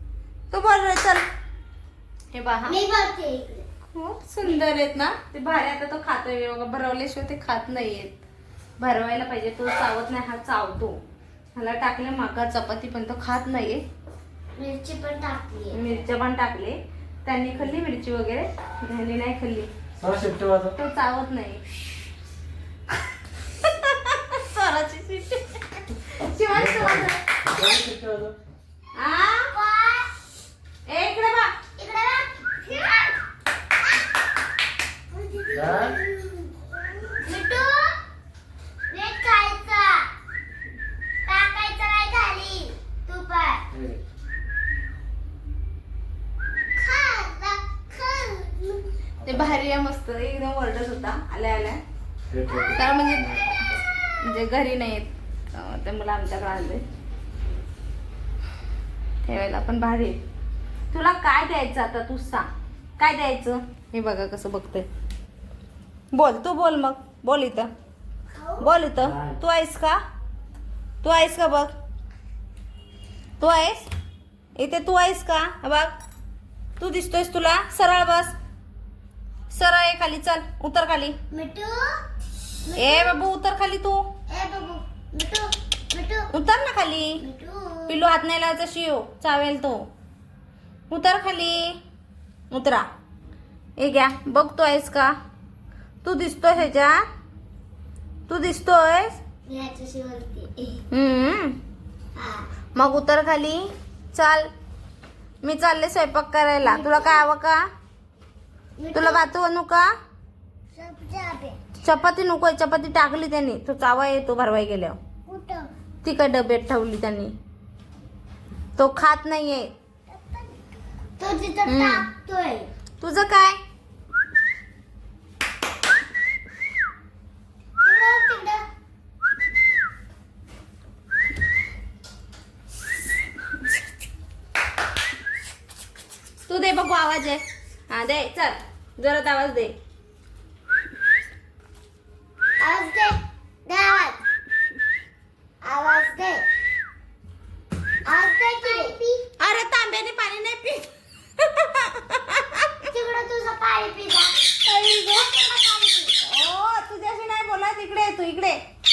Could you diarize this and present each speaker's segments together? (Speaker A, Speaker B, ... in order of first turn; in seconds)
Speaker A: 0.5-1.2, 2.3-2.8, 4.0-8.2, 8.8-11.0, 11.6-13.8, 15.7-19.7, 20.8-21.6, 23.6-27.2, 28.9-29.5, 30.9-31.6, 49.2-51.8, 52.7-56.8, 59.2-60.2, 60.9-62.5, 63.0-64.9, 66.1-67.7, 68.6-70.0, 71.0-71.7, 73.4-73.9, 74.6-75.9, 76.8-78.3, 79.5-81.2, 82.8-84.1, 86.3-87.2, 87.9-89.9, 90.9-91.8, 92.5-92.9, 93.8-95.1, 96.0-97.0, 98.3-99.2, 100.9-101.6, 102.8-104.5, 105.4-107.7, 108.9-109.9, 111.8-115.0, 116.0-117.3, 118.8-119.7, 121.7-122.1, 123.0-123.6, 136.5-139.8, 148.7-150.9, 151.4-152.7, 154.6-155.3, 156.2-158.6
Speaker B: 2.7-3.6, 14.6-15.9, 29.5-30.1, 31.8-33.2, 35.1-38.0, 38.9-40.1, 41.3-43.6, 46.8-48.9, 68.3-68.7, 81.3-81.9, 82.6-83.2, 84.3-86.3, 87.2-88.0, 99.5-100.8, 102.2-102.5, 106.6-107.3, 108.8-109.3, 110.7-111.6, 115.3-115.7, 120.1-120.6, 121.2-122.7, 127.8-128.6, 142.6-144.2, 145.6-146.4, 148.1-149.2, 152.9-154.5, 155.1-156.1
Speaker C: 20.0-20.8, 26.5-28.4, 35.5-36.0, 43.7-44.0, 49.2-49.6, 52.3-53.6, 69.0-69.4